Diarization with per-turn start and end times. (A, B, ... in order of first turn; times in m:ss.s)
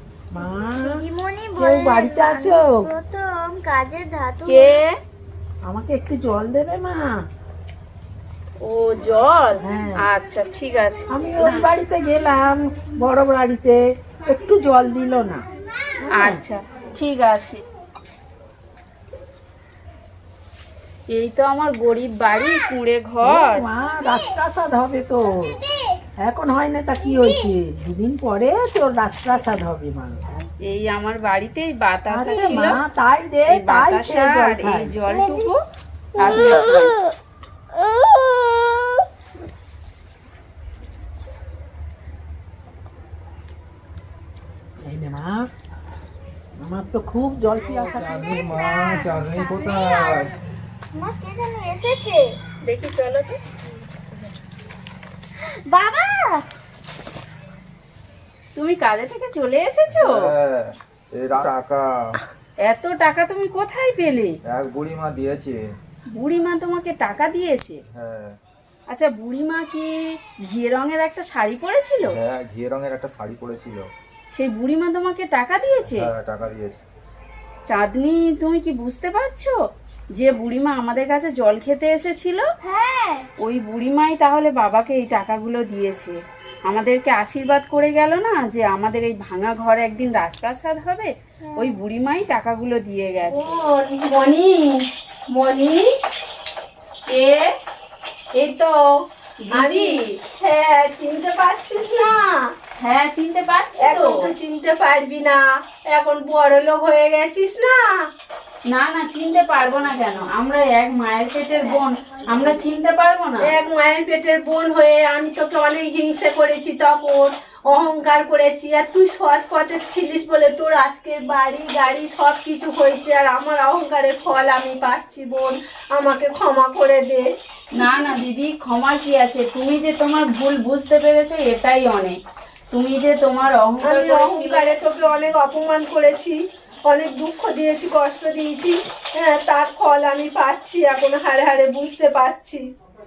0:00.3-0:01.0 A
0:00.8-0:04.8 B
0:01.6-0:02.9 A
0:04.5-0:04.9 C
0:05.6-0:07.2 A
0:08.6-0:11.7 C
0:09.6-0:10.0 A
0:11.1-0:15.4 A
0:16.0-0:16.4 A
0:16.1-0:17.6 C
0:21.1-0:23.6 C
0:23.2-0:25.6 A
0:26.2-0:30.2 A
0:30.7-0:32.8 C
0:32.1-0:35.0 A
0:33.5-0:35.6 C
0:36.2-0:37.0 C
0:36.2-0:36.5 A
0:44.8-0:45.5 A
0:46.6-0:48.3 A
0:47.6-0:50.3 B
0:47.9-0:50.3 D
0:50.9-0:52.4 B
0:52.6-0:53.4 C
0:55.4-0:56.4 B
0:58.6-1:00.2 C
0:59.9-1:02.2 D
1:02.6-1:04.4 C
1:04.4-1:05.6 D
1:06.1-1:07.8 C
1:07.9-1:08.4 D
1:08.9-1:12.2 C
1:12.0-1:13.9 D
1:14.3-1:16.1 C
1:15.9-1:16.8 D
1:17.7-1:19.6 C
1:20.2-1:22.4 C
1:22.6-1:23.3 B
1:23.4-1:26.2 C
1:26.7-1:33.5 C
1:31.4-1:31.8 B
1:33.3-1:35.9 E
1:37.1-1:37.5 C
1:38.4-1:38.8 E
1:39.4-1:40.0 C
1:39.5-1:42.4 E
1:42.8-1:44.2 C
1:43.8-1:47.9 E
1:48.7-1:53.5 C
1:53.4-2:07.3 E
2:07.8-2:12.2 C
2:12.7-2:14.6 C
2:13.8-2:22.6 E